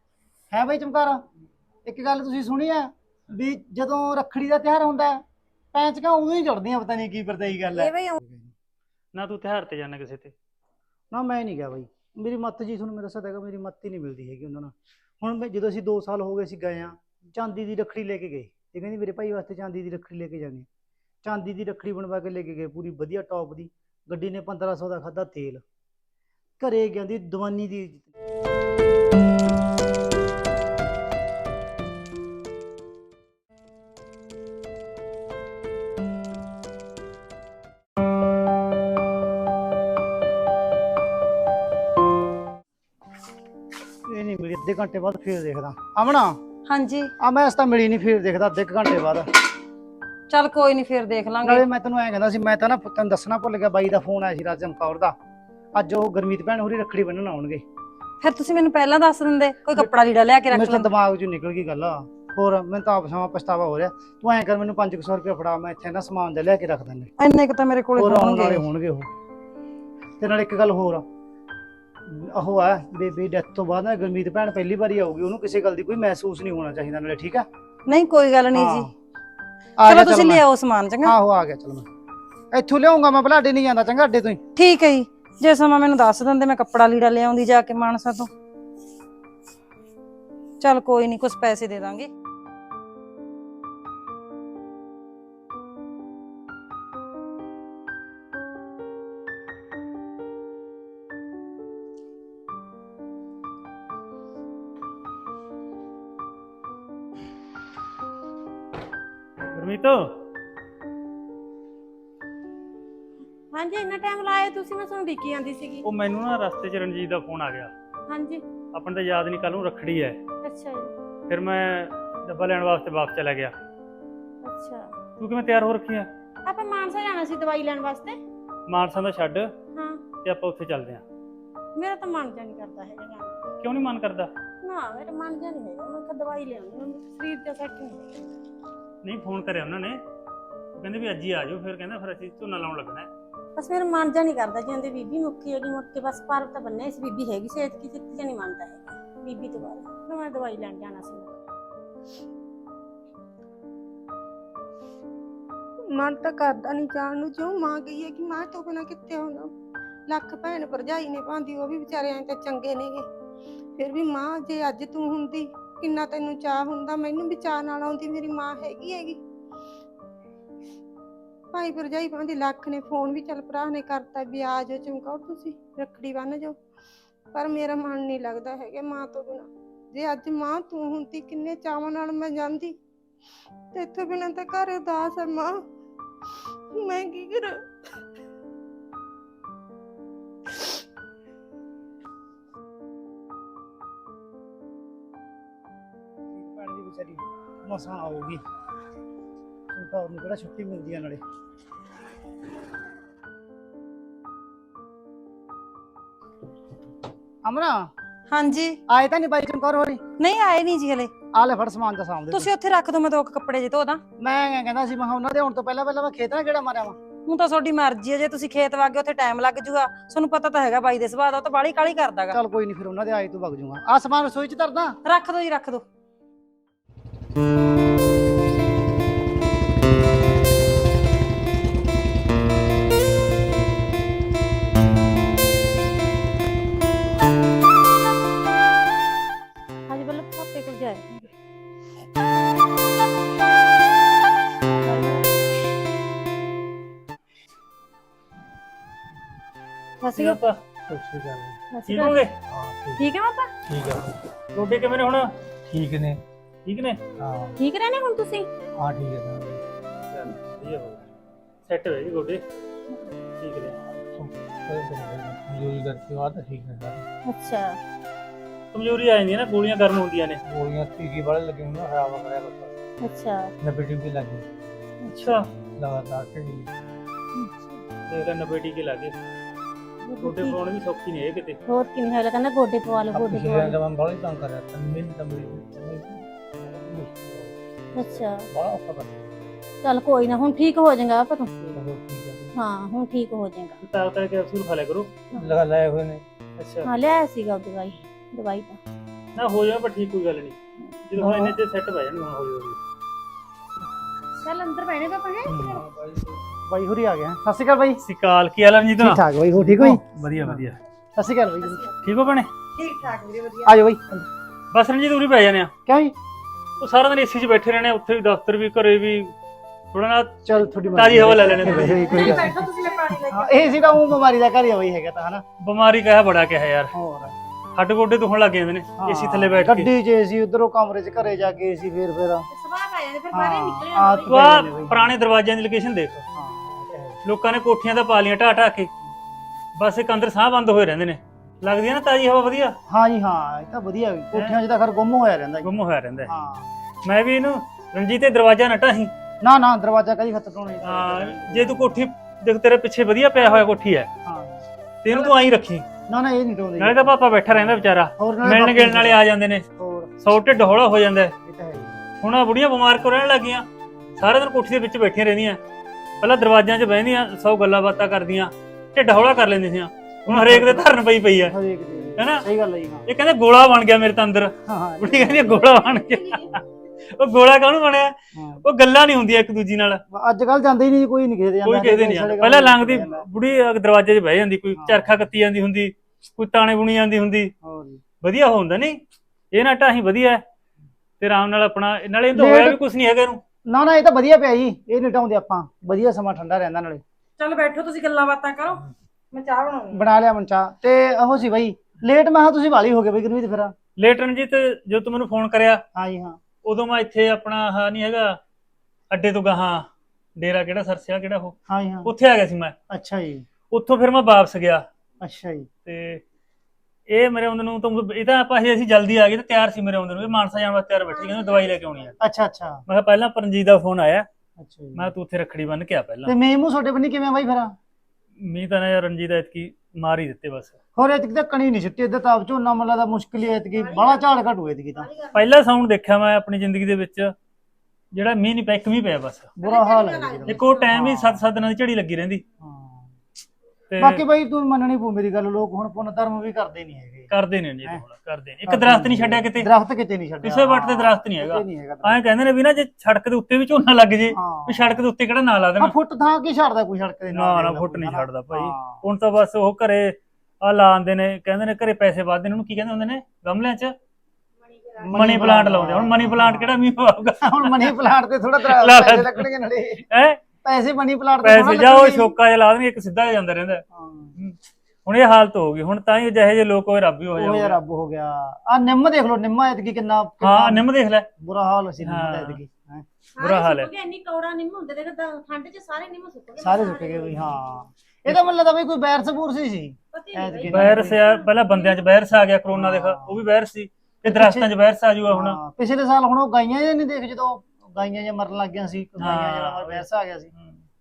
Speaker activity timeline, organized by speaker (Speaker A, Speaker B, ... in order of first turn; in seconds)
Speaker A: 0.5-1.2, 1.9-5.2, 5.7-8.5, 11.1-20.7, 21.2-25.6, 26.6-28.1, 44.0-46.4, 47.2-49.3, 51.4-55.1, 55.7-57.6, 60.5-67.1, 68.0-69.1, 70.2-71.0, 72.0-77.5, 78.5-78.9, 79.8-80.4, 81.0-81.9, 82.5-84.4, 196.3-198.4, 199.7-201.2, 207.4-207.9, 208.9-210.0, 211.3-212.5, 214.2-217.0, 222.3-225.0, 301.2-301.6, 306.7-308.0, 309.0-311.8, 313.6-314.2, 315.9-316.1, 320.4-322.6, 323.3-325.4, 326.9-327.3, 329.0-332.5, 333.3-335.1, 336.3-337.2, 342.9-345.7, 346.2-346.7, 349.4-352.0, 354.2-354.6, 356.1-359.2, 359.8-360.1, 361.4-362.0, 370.2-373.1, 374.6-375.7, 378.3-378.6, 380.1-383.3, 384.7-385.3, 387.6-388.0, 392.3-392.8, 393.7-397.0, 399.9-403.7, 405.9-406.4, 411.7-412.1, 412.9-413.5, 415.2-415.7, 422.2-422.8, 424.6-425.1, 426.2-427.8, 430.9-435.1, 439.6-441.4, 442.6-443.1, 444.0-447.3, 448.7-452.2, 454.3-455.0, 455.8-459.0, 465.0-466.9, 467.4-470.1, 470.6-472.3, 473.9-474.3, 477.4-480.9, 481.4-483.1, 486.6-491.2, 492.7-493.4, 494.2-494.7, 495.3-500.5
Speaker B: 7.7-8.2, 113.5-115.8, 118.1-118.4, 120.4-120.9, 124.4-124.9, 126.5-128.2, 129.7-130.0, 131.8-133.4, 134.6-138.2, 143.6-151.5, 239.9-241.2, 244.8-245.2, 250.0-250.4, 251.7-252.2, 253.0-253.5, 257.6-258.5, 267.2-267.8, 273.0-273.5, 277.4-277.8, 280.0-280.6, 281.7-283.8, 287.9-288.4, 289.8-291.5, 292.5-293.8, 296.8-298.8, 304.4-305.8, 332.5-334.3, 421.1-422.1, 433.7-434.2, 435.0-435.4, 439.6-440.9, 464.7-465.1, 483.4-487.5, 490.1-491.9
Speaker C: 9.1-10.3, 109.5-110.2, 115.8-117.7, 118.7-120.2, 121.3-123.5, 125.2-126.1, 128.7-129.5, 130.2-131.0, 133.6-134.3, 139.0-140.0, 140.8-143.1, 250.2-250.6, 251.9-252.3, 254.5-255.3, 256.6-257.0, 260.1-261.1, 261.6-262.4, 263.4-263.8, 268.7-270.4, 275.1-275.5, 278.1-279.2, 280.2-281.6, 293.8-295.1, 296.6-296.9, 299.4-300.6, 301.1-302.8, 308.0-310.8, 312.0-312.5, 314.7-315.7, 316.8-319.3, 319.9-322.4, 325.6-326.9, 327.7-329.9, 334.3-336.2, 337.2-338.9, 339.8-342.8, 345.6-346.3, 347.0-349.1, 350.8-354.1, 355.0-355.8, 356.8-359.6, 360.2-361.3, 362.2-363.6, 364.2-365.6, 366.2-371.6, 372.2-372.4, 373.1-380.0, 381.6-387.5, 388.2-389.0, 389.5-390.4, 391.2-393.4, 404.0-405.8, 406.6-408.4, 409.1-409.9, 410.4-412.7, 413.7-414.8, 415.9-416.2, 417.1-422.2, 422.9-424.2, 424.9-426.4, 428.4-430.8, 435.3-437.3, 438.1-439.5, 440.5-442.4, 443.9-444.2, 447.3-449.7, 450.4-455.9, 457.3-463.9, 465.1-467.9, 468.6-469.4, 470.1-470.4, 471.4-473.8, 474.4-477.8, 480.4-481.3, 482.0-482.6, 483.4-483.9, 490.7-495.6, 499.2-500.0
Speaker D: 46.7-47.1, 50.3-51.6, 58.2-60.9, 67.2-68.6, 77.9-78.9, 79.8-81.1, 84.5-88.3, 90.6-92.1, 208.3-208.8, 210.2-211.1, 212.3-214.0, 217.2-222.4, 225.0-225.8, 312.7-313.7, 321.7-323.5, 397.4-400.0
Speaker E: 155.9-159.5, 160.1-163.1, 163.8-169.2, 171.5-176.6, 177.3-182.8, 183.7-185.6, 186.7-187.7
Speaker F: 250.9-251.6, 252.5-253.0, 253.7-254.2, 255.7-256.2, 257.2-257.6, 258.8-259.6, 263.9-267.1, 270.4-272.7, 273.6-274.5, 275.7-276.7, 283.1-289.4, 291.7-292.5, 295.3-296.2, 305.6-306.4